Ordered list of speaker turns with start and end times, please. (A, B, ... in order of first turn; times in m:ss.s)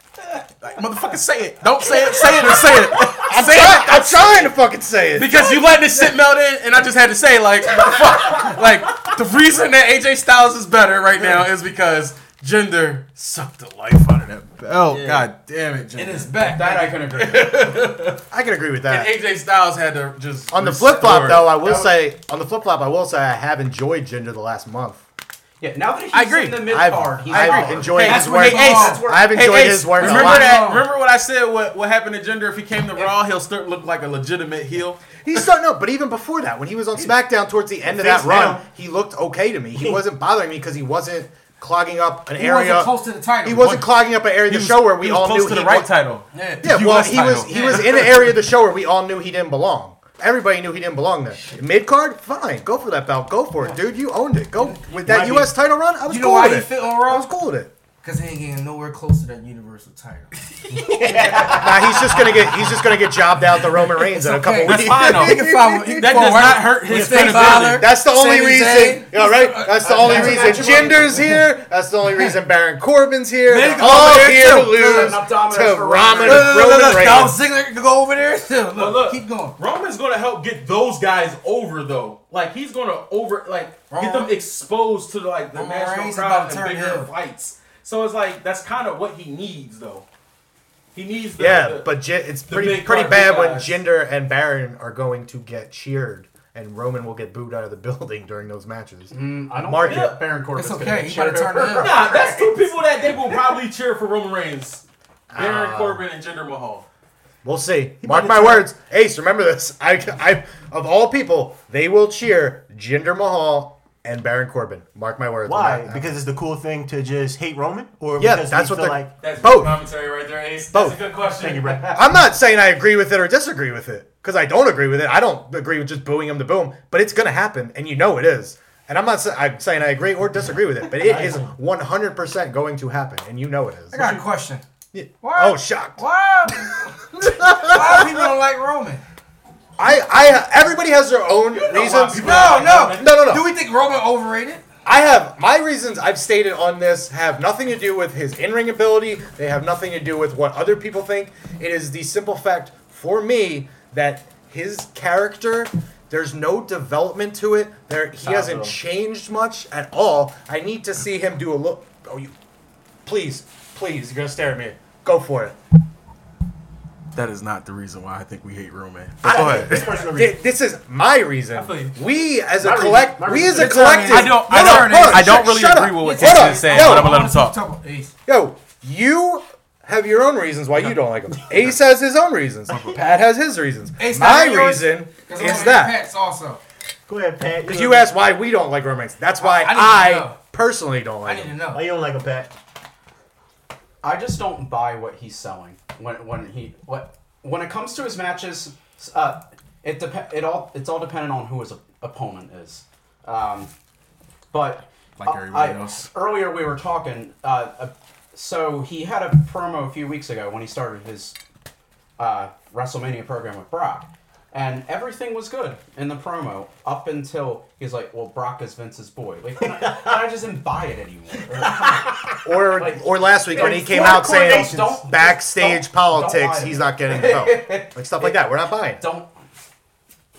0:00.6-0:04.5 A
0:02.4-0:02.7 B
0:03.2-0:05.5 C
0:05.2-0:16.4 A
0:14.9-0:15.3 D
0:16.0-0:17.0 E
0:16.4-0:17.7 D
0:17.1-0:18.2 A
0:18.3-0:19.1 C
0:18.9-0:21.6 A
0:20.5-0:25.0 C
0:25.6-0:29.3 D
0:26.1-0:26.7 A
0:26.7-0:30.6 C
0:27.3-0:35.1 A
0:28.0-0:29.1 E
0:30.0-0:30.9 E
0:35.2-0:45.9 C
0:37.8-0:38.6 B
0:42.4-0:43.8 E
0:43.6-0:48.2 A
0:46.3-0:48.0 E
0:46.6-0:57.7 C
0:55.0-0:55.5 B
0:56.1-0:57.3 E
0:58.0-1:00.3 E
1:00.7-1:02.3 B
1:01.1-1:01.7 E
1:01.5-1:05.6 C
1:04.0-1:11.5 E
1:04.6-1:07.9 A
1:06.9-1:07.8 B
1:07.6-1:17.4 C
1:09.8-1:11.0 B
1:13.5-1:15.2 E
1:13.8-1:16.8 D
1:16.2-1:19.6 E
1:18.8-1:30.0 A
1:23.9-1:24.3 E
1:25.5-1:27.1 E
1:30.9-1:31.9 A
1:31.4-1:40.2 C
1:32.5-1:33.8 A
1:39.1-1:42.6 D
1:39.8-1:40.2 A
1:40.6-1:42.2 E
1:41.8-1:44.8 A
1:45.3-1:46.0 C
1:45.4-1:46.9 A
1:47.4-1:56.2 C
1:48.0-1:48.6 B
1:55.4-1:59.1 B
1:58.2-1:59.8 C
1:59.2-2:02.0 A
2:00.7-2:01.0 C
2:01.4-2:02.0 B
2:01.9-2:14.2 C
2:10.9-2:11.5 B
2:13.9-2:14.6 E
2:14.9-2:16.0 C
2:15.2-2:16.9 E
2:17.2-2:18.2 C
2:17.5-2:19.0 E
2:19.8-2:23.5 C
2:21.5-2:23.1 A
2:22.2-2:24.6 E
2:24.8-2:42.3 C
2:38.2-2:38.7 B
2:43.0-2:45.6 C
2:47.1-2:49.9 A
2:49.2-2:50.4 B
2:49.2-2:57.2 C
2:51.5-2:52.0 A
2:52.6-2:54.1 B
2:53.3-2:55.5 E
2:54.1-2:57.6 A
2:56.0-2:58.1 E
2:58.3-3:06.0 C
3:04.0-3:06.6 E
3:07.1-3:08.1 B
3:07.6-3:11.6 C
3:09.4-3:10.4 E
3:11.2-3:11.8 E
3:11.7-3:12.5 B
3:14.0-3:23.7 D
3:24.5-3:31.4 D
3:25.2-3:26.1 A
3:32.2-3:42.2 D
3:39.6-3:40.2 B
3:41.5-3:42.2 B
3:42.4-3:49.0 C
3:42.7-3:48.4 D
3:43.5-3:45.0 B
3:48.9-3:49.4 D